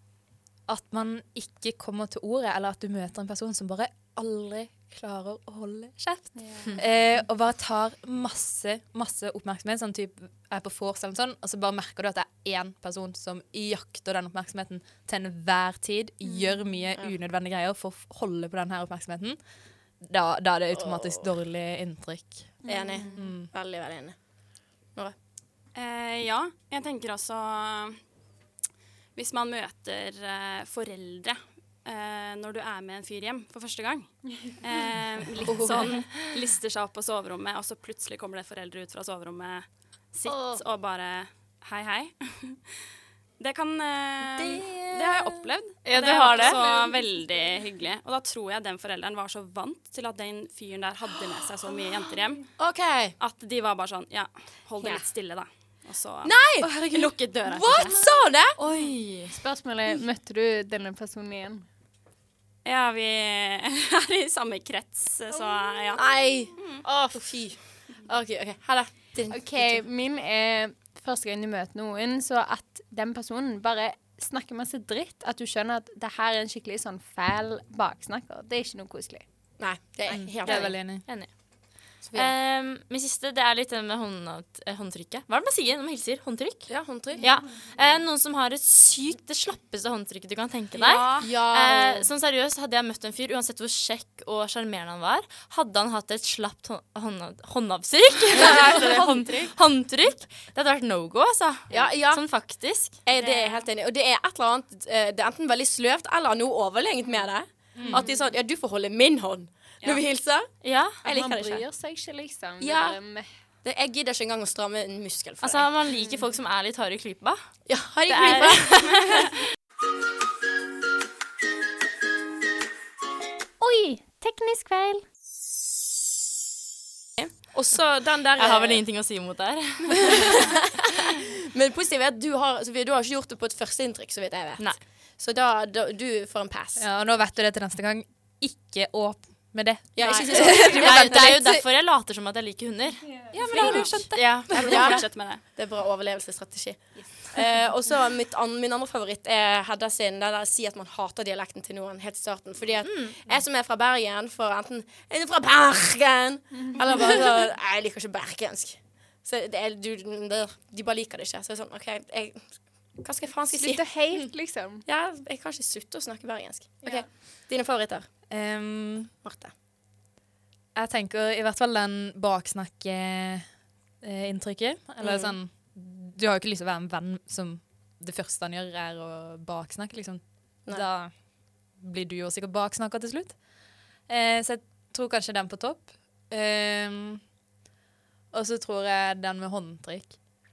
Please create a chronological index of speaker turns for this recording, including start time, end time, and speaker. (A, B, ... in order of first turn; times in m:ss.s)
0:00.7-0:19.4 A
0:06.3-0:06.8 B
0:20.0-0:22.6 A
0:20.8-0:21.2 C
0:22.6-0:23.2 B
0:22.7-0:24.2 C
0:23.2-0:23.5 A
0:25.8-0:28.0 D
0:29.2-0:42.6 D
0:35.4-0:36.0 C
0:40.3-0:40.6 E
0:43.4-0:52.4 D
0:44.2-0:45.5 C
0:45.8-0:46.6 E
0:46.3-0:46.8 C
0:52.6-0:53.1 C
0:53.2-0:58.0 D
0:56.2-0:58.6 C
0:58.6-0:59.3 E
0:59.3-1:01.7 B
1:02.6-1:06.0 D
1:05.3-1:06.0 B
1:06.0-1:06.5 C
1:06.6-1:06.8 D
1:06.8-1:07.2 E
1:07.1-1:09.8 C
1:09.3-1:19.2 B
1:19.6-1:20.8 C
1:20.1-1:21.1 A
1:20.4-1:21.4 E
1:21.9-1:43.0 E
1:22.0-1:22.3 C
1:26.7-1:27.3 C
1:30.7-1:32.1 C
1:38.3-1:39.5 C
1:41.7-1:42.2 C
1:43.0-1:50.5 C
1:43.1-1:43.7 D
1:47.8-1:48.0 A
1:50.6-1:51.0 E
1:51.0-1:51.6 C
1:51.1-1:53.3 B
1:52.6-1:53.0 C
1:53.6-1:55.7 C
1:55.4-1:57.4 E
1:57.7-1:59.3 C
1:58.1-1:58.6 E
2:03.6-2:05.0 B
2:07.2-2:08.8 C
2:08.4-2:10.4 E
2:10.1-2:16.8 C
2:16.8-2:21.6 A
2:20.0-2:21.4 C
2:20.0-2:23.1 E
2:23.2-2:23.6 B
2:23.3-2:25.0 A
2:23.5-2:24.0 D
2:24.1-2:25.0 E
2:24.5-2:25.4 D
2:24.7-2:42.5 C
2:32.8-2:33.2 E
2:43.0-2:43.9 C
2:43.5-2:44.8 B
2:44.9-2:48.1 C
2:48.3-2:49.1 A
2:49.2-2:49.5 C
2:50.8-2:53.5 A
2:54.0-3:01.1 A
2:55.0-2:55.4 C
3:01.8-3:03.4 A
3:04.1-3:07.2 A
3:08.3-3:10.2 A